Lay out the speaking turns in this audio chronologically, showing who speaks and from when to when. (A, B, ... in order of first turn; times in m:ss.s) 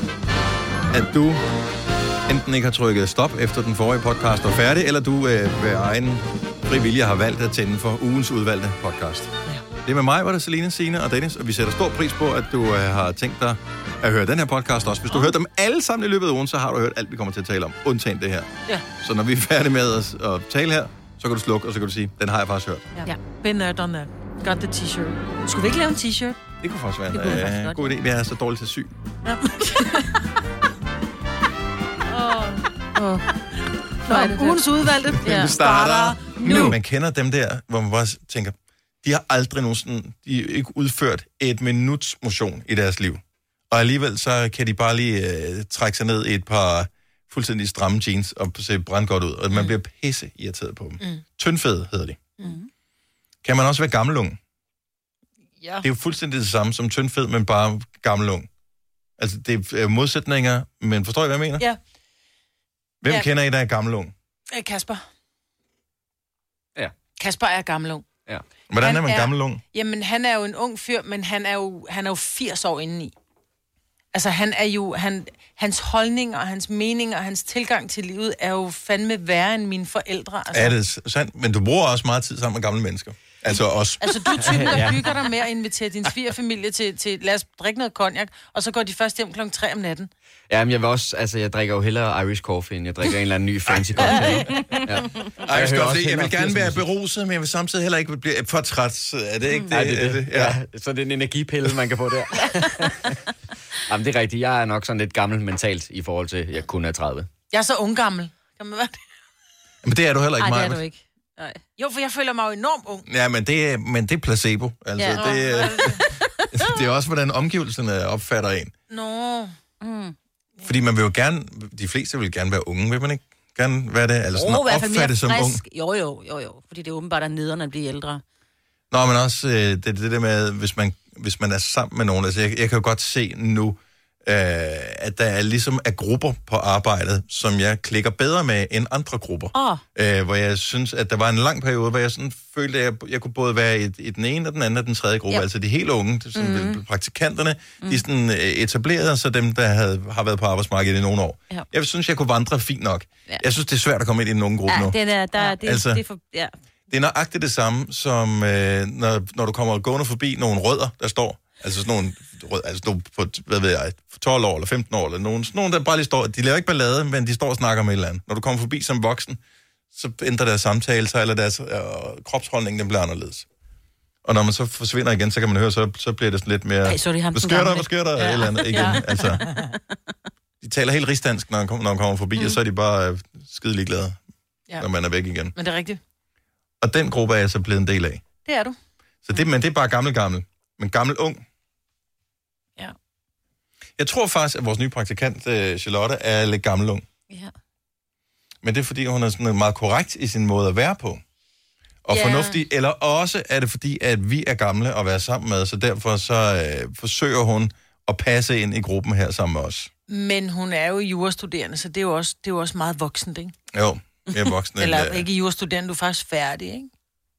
0:00.9-0:01.4 A
0:02.3-0:22.9 A
0:23.0-0:26.4 B
0:26.6-0:29.0 A
0:27.1-0:28.0 C
0:29.2-0:30.1 B
0:32.1-0:33.2 C
0:34.0-0:36.8 B
0:34.1-0:34.7 C
0:35.2-0:35.6 C
0:35.2-0:52.2 A
0:36.4-0:36.7 C
0:52.4-0:52.6 B
0:53.4-0:54.4 A
0:55.8-0:58.5 A
0:59.2-1:01.6 A
1:03.0-1:04.1 A
1:04.5-1:05.0 B
1:07.2-1:08.0 B
1:08.7-1:09.6 A
1:08.8-1:13.1 B
1:14.1-1:20.8 B
1:20.5-1:24.8 A
1:24.0-1:30.1 B
1:24.5-1:25.0 D
1:30.5-1:36.8 D
1:33.7-1:34.5 A
1:35.4-1:40.6 A
1:39.7-1:43.1 D
1:43.9-1:47.3 D
1:47.5-1:49.0 B
1:49.8-1:50.8 A
1:50.4-1:51.6 C
1:51.8-1:53.0 B
1:53.0-1:58.7 A
1:55.0-1:56.7 C
1:55.1-1:56.1 B
1:58.9-1:59.5 B
1:59.8-2:00.1 C
2:00.6-2:05.6 A
2:04.3-2:08.2 C
2:08.9-2:35.0 A
2:19.5-2:19.8 C
2:26.3-2:26.8 C
2:34.7-2:36.5 C
2:35.6-2:36.0 A
2:36.9-2:49.4 A
2:49.9-2:53.4 A
2:54.2-2:59.4 A
2:56.8-2:59.3 C
2:58.2-2:59.7 B
3:00.6-3:04.2 A
3:04.8-3:05.5 A
3:05.5-3:06.0 B
3:06.8-3:08.2 A
3:08.4-3:08.8 B
3:09.2-3:11.4 A
3:14.0-3:17.0 A
3:18.6-3:21.2 A
3:22.0-3:29.9 A
3:22.1-3:22.6 C
3:30.1-3:33.5 B
3:33.7-3:35.2 A
3:34.3-3:36.9 B